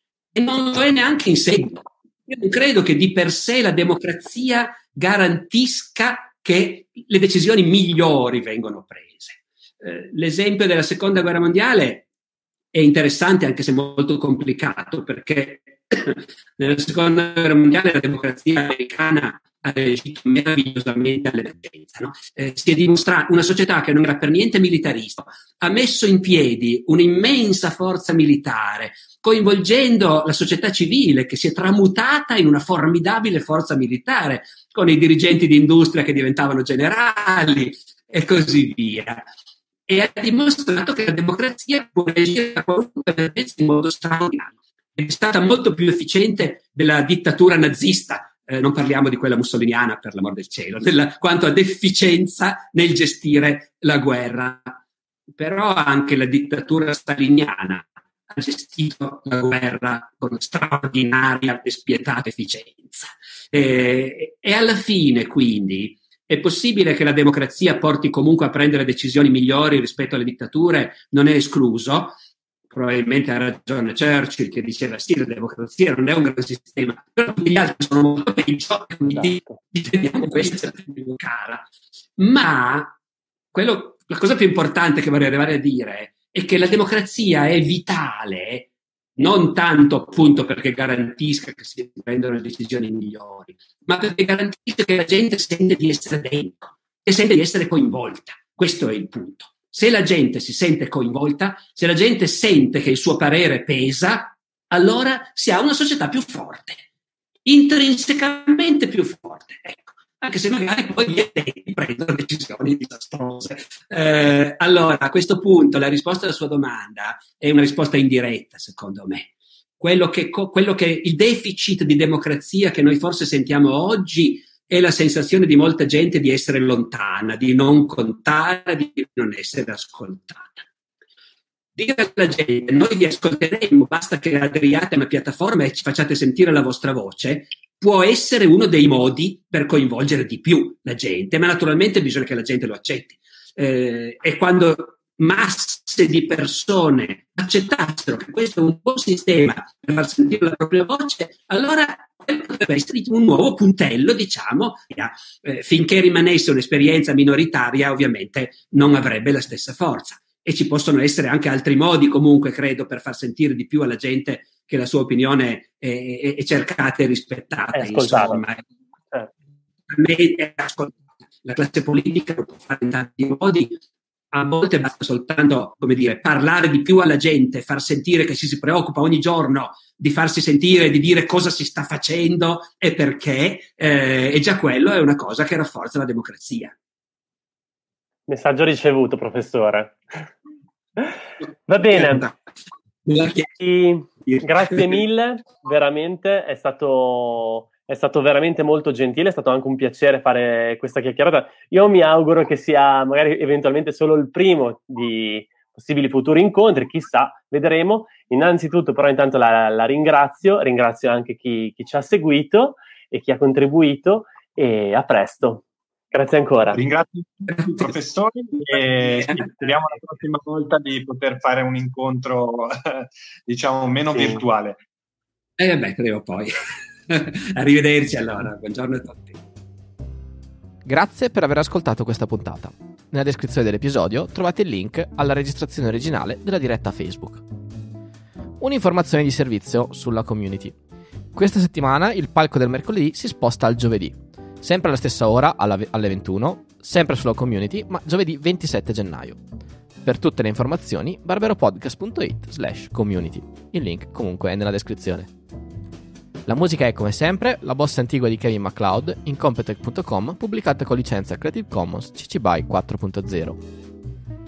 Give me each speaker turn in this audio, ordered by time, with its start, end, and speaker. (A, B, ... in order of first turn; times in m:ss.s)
0:00.3-0:12.0 A
0:12.7-0:39.2 A
0:39.9-0:54.8 A
0:55.3-1:12.2 A
1:12.7-1:21.6 A
1:22.2-1:22.9 A
1:23.5-1:46.8 A
1:47.4-2:10.6 A
2:11.8-2:48.6 A
2:47.7-2:48.4 B
2:49.9-2:53.8 A
2:54.3-3:06.7 A
3:08.3-3:10.3 B
3:11.7-3:12.3 B
3:11.9-3:12.4 A
3:13.0-3:13.5 A
3:13.6-3:36.8 B
3:14.2-3:15.0 A
3:36.7-3:44.8 C
3:37.5-3:37.9 A
3:38.9-3:39.7 A
3:44.1-3:44.4 B
3:45.6-3:46.5 A
3:47.1-3:49.4 A
3:50.8-3:57.4 D
3:58.6-4:00.8 D
4:01.3-4:09.4 D
4:10.0-4:15.3 D
4:16.4-4:23.6 D